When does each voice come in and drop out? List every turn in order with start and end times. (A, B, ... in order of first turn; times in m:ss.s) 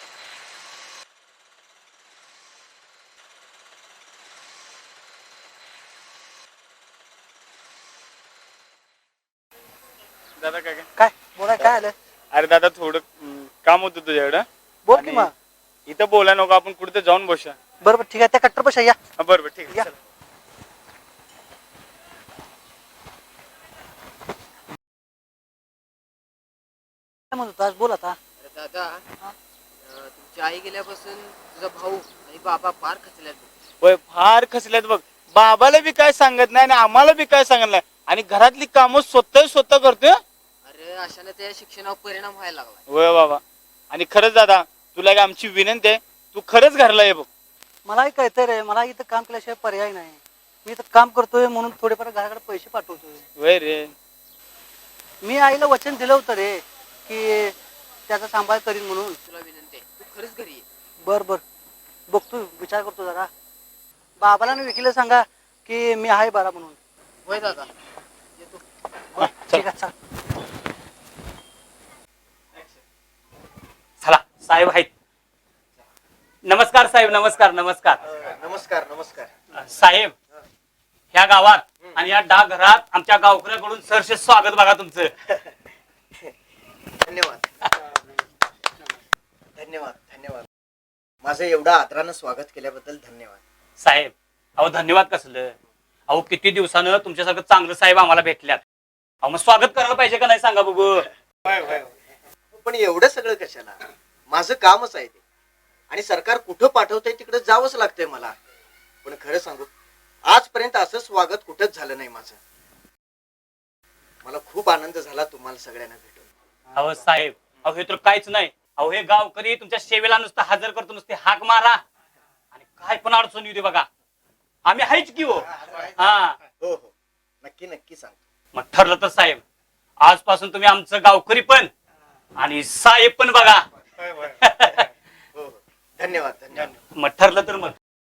0:10.4-0:10.8 A
0:11.0-0:11.9 B
0:12.3-0:15.3 A
0:14.8-0:15.3 B
0:15.9-0:17.6 A
0:17.8-0:19.0 B
0:19.2-0:19.9 A
0:27.3-0:28.2 B
0:28.4-0:29.0 C
0:29.8-0:33.5 C
0:33.8-0:40.2 A
0:40.6-0:42.8 C
0:42.9-0:47.2 A
0:47.8-0:53.2 B
0:53.4-0:53.9 A
0:55.2-0:57.5 B
0:58.1-0:59.2 B
0:59.3-1:00.6 C
1:01.0-1:01.4 B
1:02.1-1:03.3 B
1:04.2-1:06.8 B
1:07.2-1:07.7 C
1:09.1-1:09.9 B
1:14.0-1:14.9 D
1:16.4-1:18.0 D
1:18.1-1:19.3 E
1:19.5-1:20.1 D
1:21.1-1:25.1 D
1:27.0-1:27.7 E
1:29.6-1:30.4 E
1:31.2-1:33.4 E
1:33.8-1:35.5 D
1:36.1-1:38.6 D
1:39.2-1:41.1 D
1:41.5-1:41.9 E
1:42.5-1:43.8 E
1:44.3-1:45.2 E
1:45.9-1:48.3 E
1:49.0-1:49.7 E
1:50.3-1:52.4 E
1:54.2-1:56.3 E
1:56.7-2:01.8 D
2:02.5-2:03.9 D
2:04.6-2:06.4 D
2:05.6-2:05.9 E
2:06.6-2:06.9 E
2:07.4-2:08.2 E
2:08.5-2:09.4 D
2:10.0-2:11.7 D
2:12.4-2:13.6 D
2:14.2-2:14.8 D
2:15.3-2:16.8 E
2:16.6-2:17.8 D